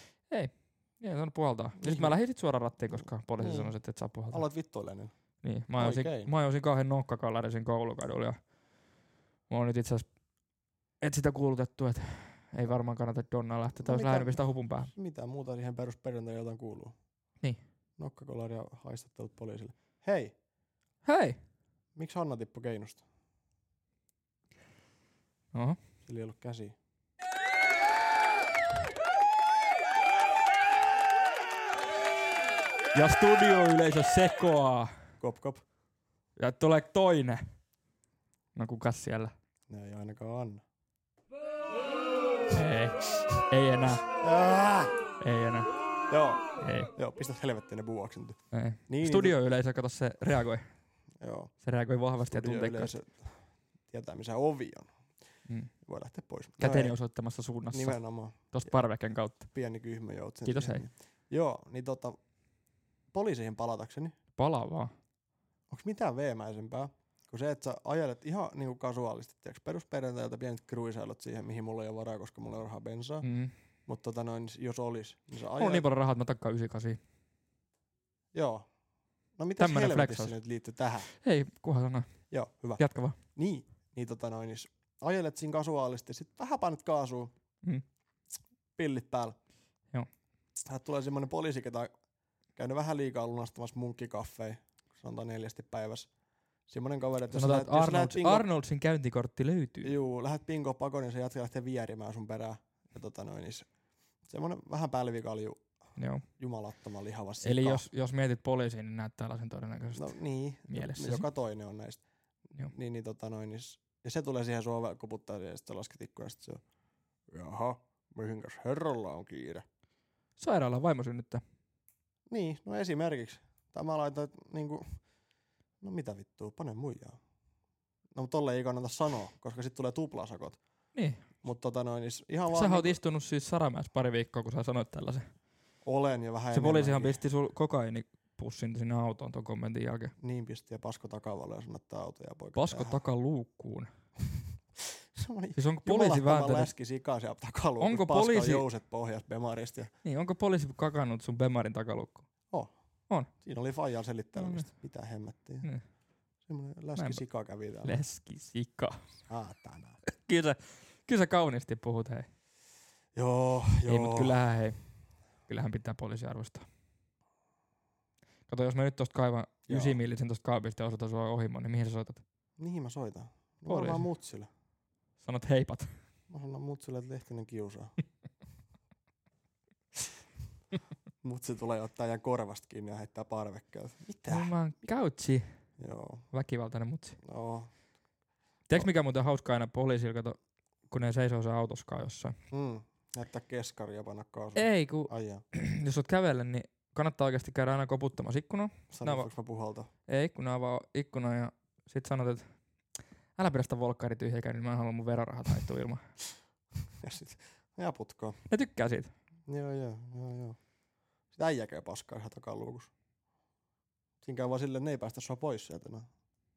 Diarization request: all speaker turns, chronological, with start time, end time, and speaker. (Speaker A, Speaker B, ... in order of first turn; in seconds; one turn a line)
Speaker A: 0.3-4.5
Speaker B: 1.8-2.2
Speaker B: 3.4-3.7
Speaker B: 4.3-5.1
Speaker A: 5.4-8.4
Speaker B: 5.8-6.3
Speaker A: 9.5-10.1
Speaker A: 11.0-14.9
Speaker B: 13.8-17.0
Speaker B: 18.0-20.3
Speaker A: 21.0-21.4
Speaker B: 21.9-23.0
Speaker A: 25.5-25.8
Speaker B: 26.0-26.7
Speaker A: 32.9-34.9
Speaker B: 35.2-35.6
Speaker A: 36.4-37.4
Speaker A: 38.5-39.3
Speaker B: 39.7-40.6
Speaker A: 42.5-44.0
Speaker B: 44.2-45.0
Speaker A: 45.2-45.7
Speaker B: 46.1-49.4
Speaker A: 46.6-46.9
Speaker A: 48.5-50.6
Speaker B: 51.2-51.5
Speaker A: 51.6-53.0
Speaker B: 52.3-54.9
Speaker A: 55.5-55.7
Speaker B: 55.8-57.0
Speaker A: 56.6-59.5
Speaker B: 57.7-58.8
Speaker B: 59.4-62.2
Speaker A: 60.4-60.8
Speaker B: 63.1-64.2
Speaker A: 64.4-64.9
Speaker B: 65.7-73.3
Speaker A: 73.2-73.5
Speaker B: 73.9-75.9
Speaker A: 75.5-77.0
Speaker B: 78.3-78.7
Speaker B: 79.4-81.1
Speaker A: 79.6-80.4
Speaker A: 81.2-83.2
Speaker B: 82.3-87.3
Speaker B: 88.8-89.4
Speaker B: 90.6-91.9
Speaker B: 92.5-96.1
Speaker B: 96.7-98.5
Speaker A: 97.3-99.9
Speaker B: 99.8-103.7
Speaker B: 104.3-105.6
Speaker A: 106.0-106.3
Speaker B: 106.3-107.8
Speaker A: 107.4-111.3
Speaker B: 109.9-112.0
Speaker B: 112.7-116.6
Speaker B: 117.3-119.6
Speaker A: 120.4-121.4
Speaker B: 122.3-125.0
Speaker B: 125.8-127.2
Speaker B: 128.1-130.6
Speaker A: 130.9-131.3
Speaker B: 131.4-133.0
Speaker A: 132.5-135.3
Speaker B: 135.8-137.2
Speaker A: 136.5-140.1
Speaker B: 140.2-143.0
Speaker A: 142.6-143.9
Speaker B: 144.8-149.9
Speaker A: 145.6-146.7
Speaker A: 147.8-148.7
Speaker A: 150.0-152.3
Speaker B: 153.3-155.7
Speaker A: 154.4-154.7
Speaker B: 156.4-158.0
Speaker A: 156.9-157.2
Speaker A: 157.8-159.1
Speaker B: 159.3-160.0
Speaker A: 160.1-162.3
Speaker B: 163.1-164.4
Speaker A: 163.8-164.9
Speaker A: 165.4-166.7
Speaker A: 168.5-172.2
Speaker B: 169.7-170.0
Speaker B: 172.6-174.5
Speaker A: 173.7-174.1
Speaker A: 175.2-175.9
Speaker B: 176.3-177.9
Speaker B: 181.2-184.5
Speaker A: 184.3-185.7
Speaker B: 185.8-186.3
Speaker A: 186.3-187.2
Speaker B: 187.2-187.8
Speaker A: 188.7-190.4
Speaker A: 190.9-192.3
Speaker B: 192.5-195.4
Speaker A: 194.6-199.3
Speaker B: 198.9-199.9
Speaker A: 200.1-202.5
Speaker A: 203.4-206.1
Speaker B: 207.0-208.4
Speaker A: 208.5-209.1
Speaker B: 209.5-210.6
Speaker B: 211.3-212.9
Speaker B: 214.2-216.1